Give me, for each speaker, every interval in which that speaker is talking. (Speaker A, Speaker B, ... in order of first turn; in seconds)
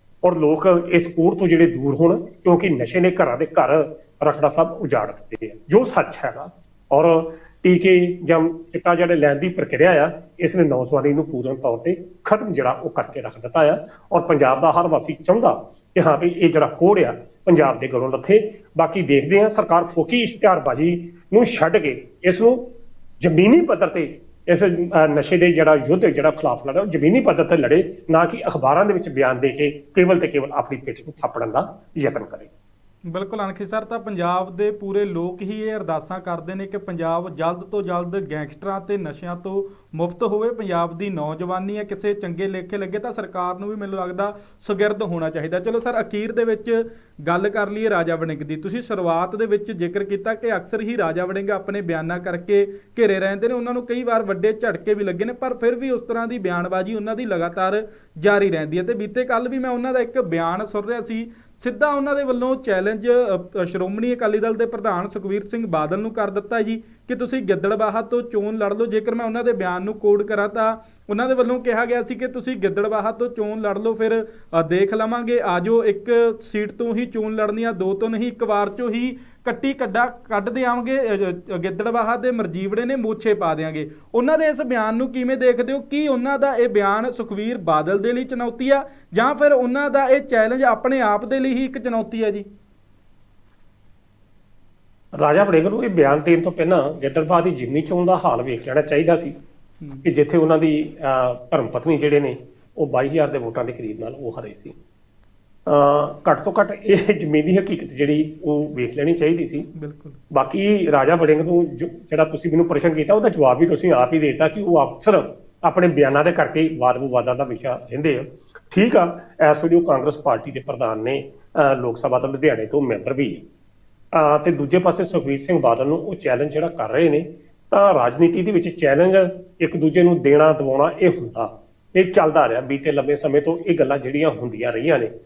Speaker A: 0.2-22.6, 23.2-32.5, 95.2-99.3, 100.0-104.8, 105.7-109.7, 110.3-123.4, 124.1-135.1
Speaker B: 33.1-92.5, 99.8-100.1, 109.7-110.2